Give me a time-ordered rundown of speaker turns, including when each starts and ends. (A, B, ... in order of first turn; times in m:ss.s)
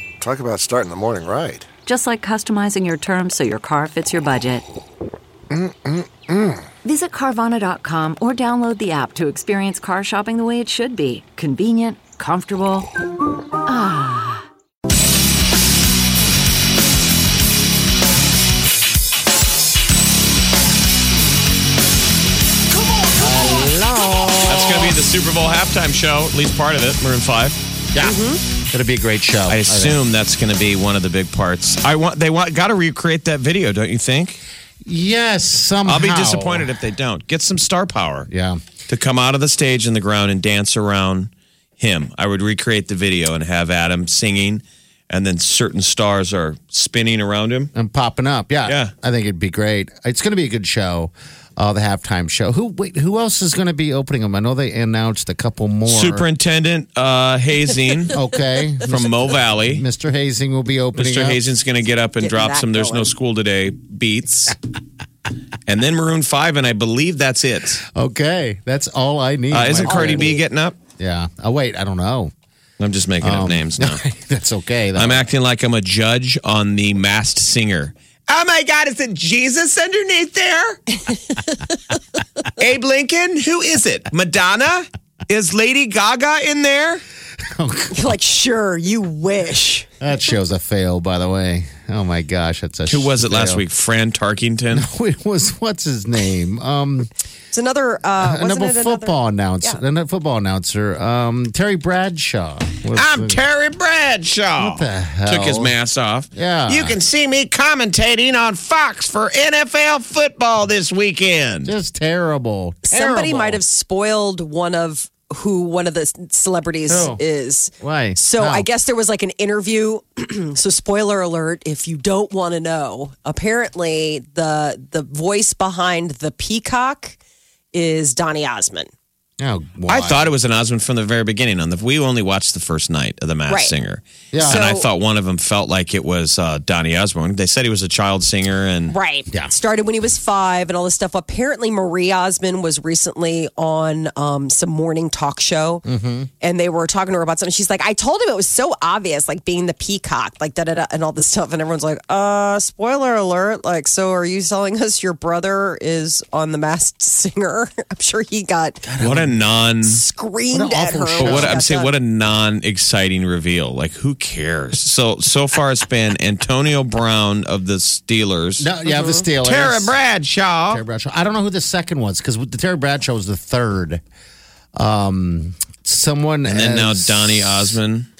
0:00.2-0:01.6 A
0:01.8-0:04.6 B
0:05.5-0:06.6 A
0:06.8-0:12.9 B
0:13.6-0:14.4 B
0:23.1-0:25.0 C
0:24.5-0:27.6 D
0:27.9-0:30.0 C
0:28.0-0:28.4 E
0:29.5-0:34.4 D
0:34.8-0:36.7 C
0:35.8-0:38.3 D
0:38.3-0:38.6 C
0:38.9-0:47.7 D
0:47.7-0:56.3 C
0:48.6-0:48.9 D
0:55.9-0:58.2 D
0:58.1-1:01.5 C
0:58.8-0:59.8 D
1:00.9-1:04.6 D
1:02.2-1:03.1 E
1:05.7-1:07.8 D
1:07.8-1:10.4 C
1:09.5-1:10.8 D
1:09.8-1:10.4 E
1:11.0-1:12.3 C
1:12.8-1:14.0 D
1:13.2-1:15.3 C
1:14.9-1:21.0 D
1:22.6-1:27.0 D
1:27.5-1:28.2 C
1:27.9-1:30.1 E
1:30.0-1:33.6 C
1:32.9-1:34.9 D
1:34.7-1:37.1 C
1:37.5-1:39.8 E
1:38.2-1:43.4 C
1:42.9-1:51.7 D
1:44.6-1:45.7 C
1:46.3-1:47.0 C
1:51.6-1:53.6 C
1:52.9-2:07.2 E
1:56.9-1:57.2 C
1:57.8-1:58.7 C
2:07.7-2:08.9 E
2:09.4-2:10.3 C
2:09.9-2:18.9 D
2:13.5-2:13.7 E
2:14.3-2:14.6 C
2:14.4-2:14.9 E
2:18.9-2:25.8 E
2:25.8-2:26.3 C
2:26.4-2:38.8 E
2:38.8-2:39.4 C
2:39.0-2:40.0 D
2:39.8-2:41.9 E
2:40.5-2:41.6 C
2:41.2-2:48.7 D
2:48.6-2:49.9 C
2:48.8-2:49.3 E
2:49.4-2:50.8 D
2:50.7-2:54.0 C
2:54.8-2:57.8 C
2:56.4-2:58.1 D